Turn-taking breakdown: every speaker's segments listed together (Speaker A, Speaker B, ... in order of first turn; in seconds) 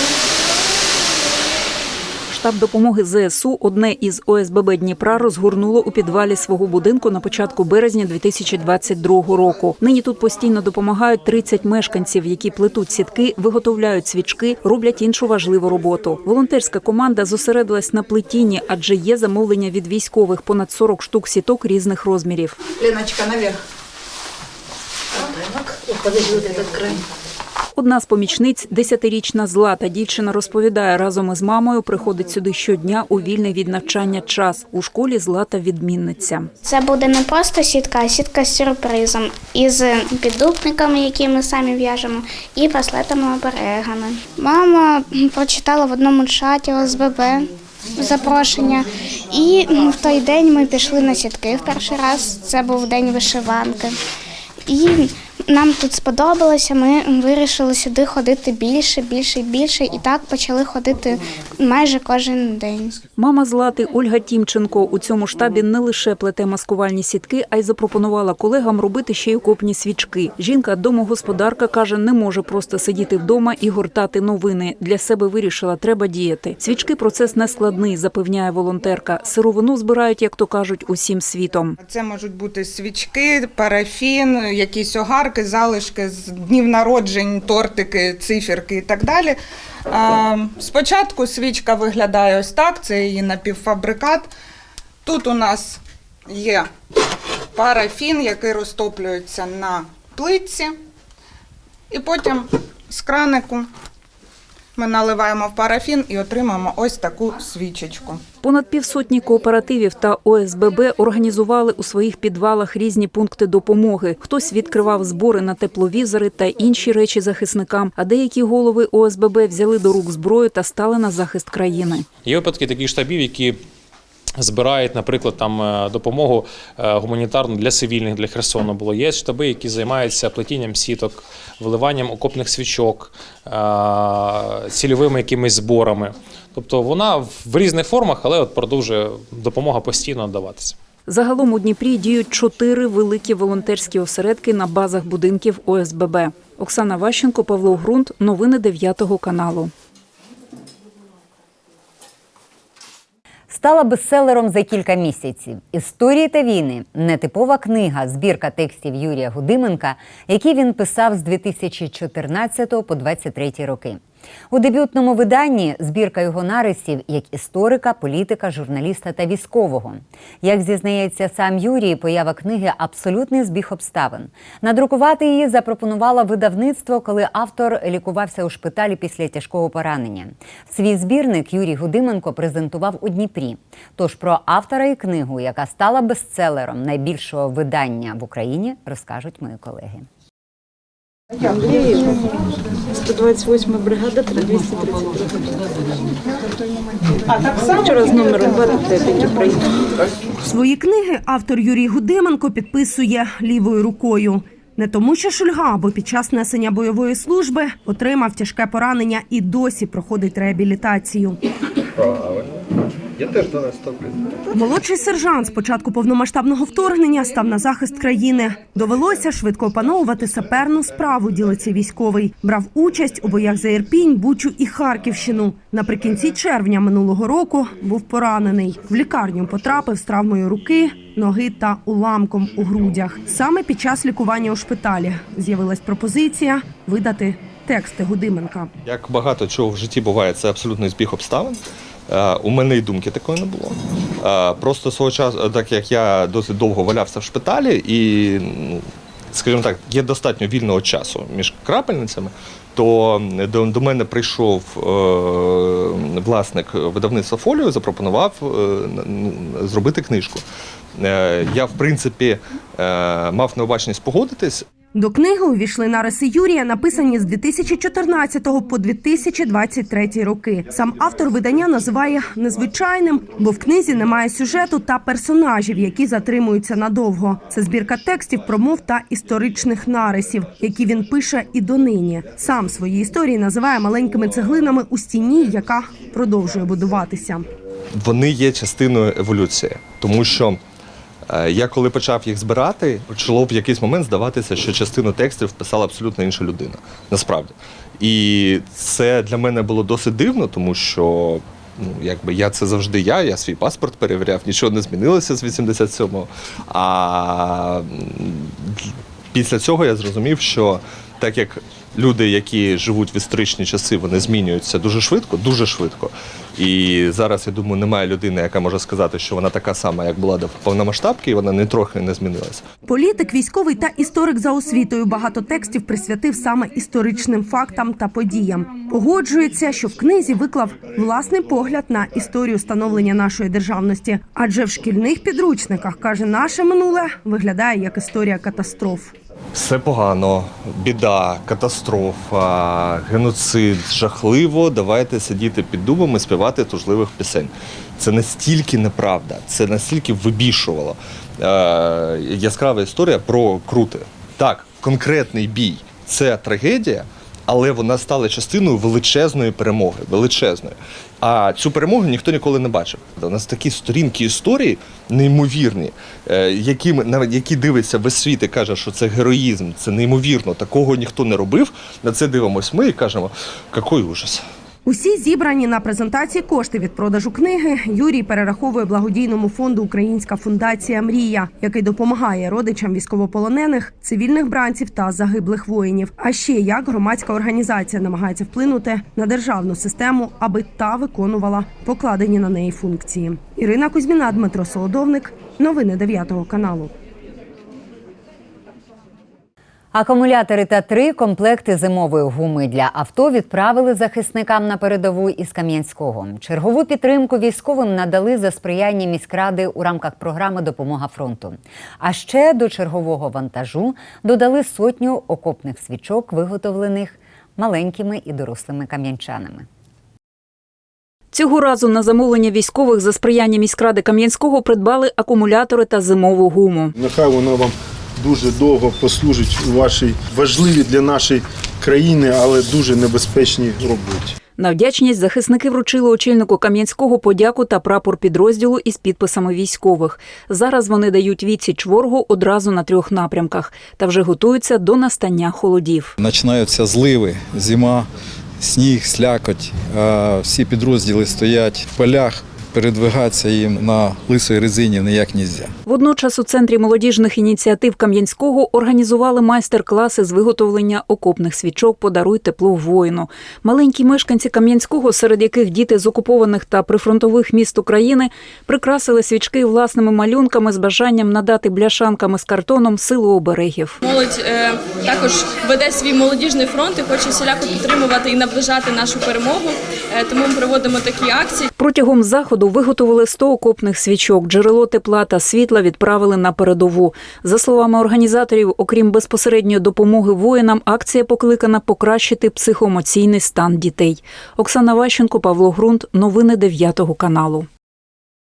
Speaker A: 2.3-22.6, 27.7-36.5, 63.1-81.8, 108.4-122.0, 141.1-149.7, 421.3-426.9, 434.6-446.1, 455.9-474.0, 481.8-497.7
Speaker B: 26.2-26.9, 191.5-192.2, 192.9-195.5, 197.7-199.7
Speaker C: 36.6-54.0, 54.7-63.0
Speaker D: 81.8-89.3, 89.9-94.3, 95.0-96.7, 97.5-100.8, 101.9-103.7, 104.8-108.2
Speaker E: 122.2-123.6, 124.4-140.8
Speaker F: 153.5-164.0, 164.5-190.1, 399.9-419.6
Speaker G: 200.4-211.4, 214.5-238.7, 264.9-287.5, 322.8-339.1, 374.8-396.9
Speaker H: 213.2-213.9, 239.0-241.5, 242.1-243.7, 244.3-248.8, 249.3-260.4, 261.0-264.6, 288.1-290.5, 291.4-297.5, 298.0-301.4, 302.0-308.3, 309.4-322.6, 339.6-342.4, 343.2-347.5, 348.0-350.9, 351.4-357.0, 357.5-360.7, 361.2-374.4
Speaker I: 426.9-434.3
Speaker J: 446.2-448.1, 448.6-455.7
Speaker K: 474.0-481.6